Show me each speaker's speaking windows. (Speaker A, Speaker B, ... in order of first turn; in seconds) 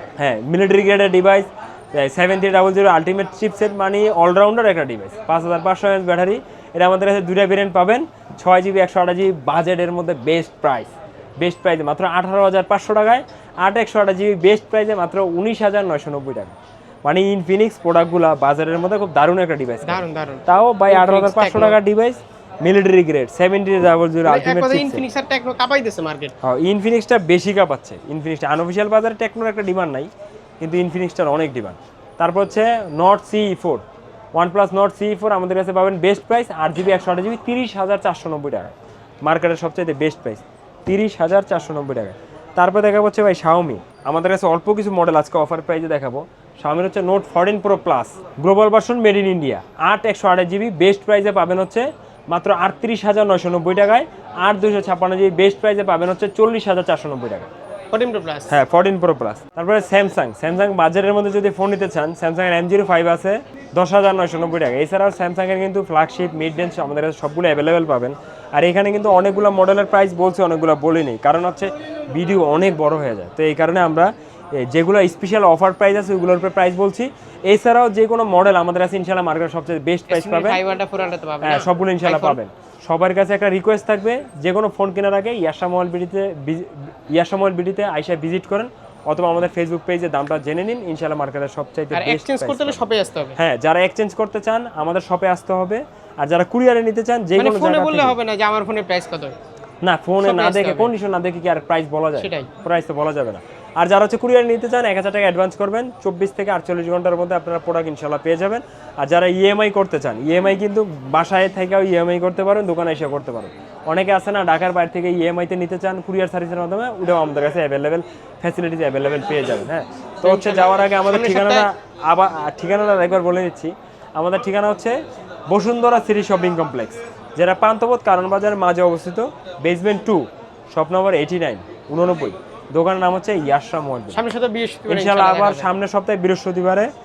Speaker A: 0.2-25.0, 26.4-30.1, 30.6-57.5, 58.5-80.6, 81.4-92.8, 93.4-98.2, 99.8-125.0, 125.5-134.2, 134.9-136.9
Speaker B: 19.8-21.8, 24.3-26.3, 57.9-58.5, 80.1-82.4, 91.9-93.4, 97.4-99.3, 100.2-100.9, 102.2-102.5, 120.2-121.7, 134.1-135.8